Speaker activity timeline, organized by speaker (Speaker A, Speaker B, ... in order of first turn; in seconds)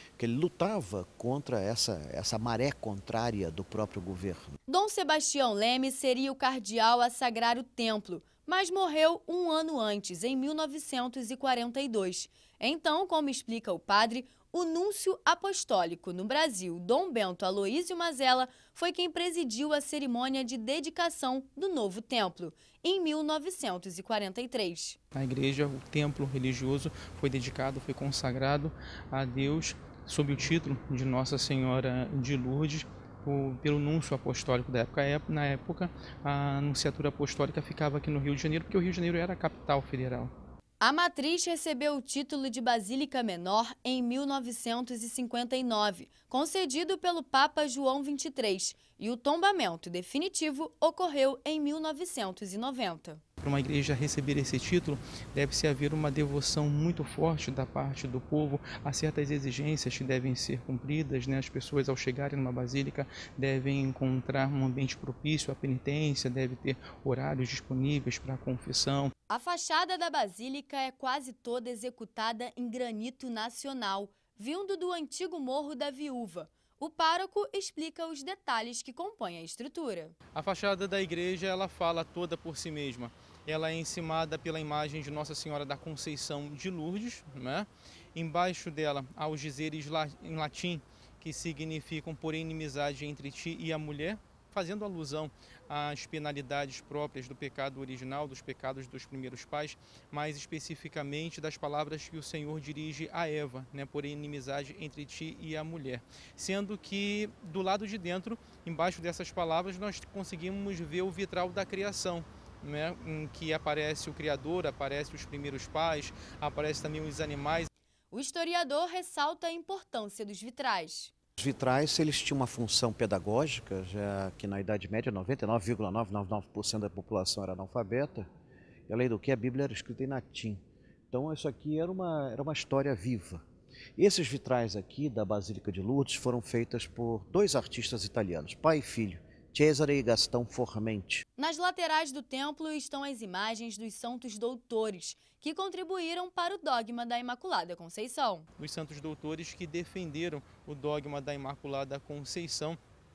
Speaker A: 0.2-4.5, 121.4-128.3, 128.9-133.4, 134.0-141.2
Speaker B: 4.7-25.0, 40.8-53.2, 69.3-80.1, 118.1-121.1, 141.4-148.5
Speaker C: 25.1-40.3, 53.4-69.1, 80.3-117.7, 148.6-152.8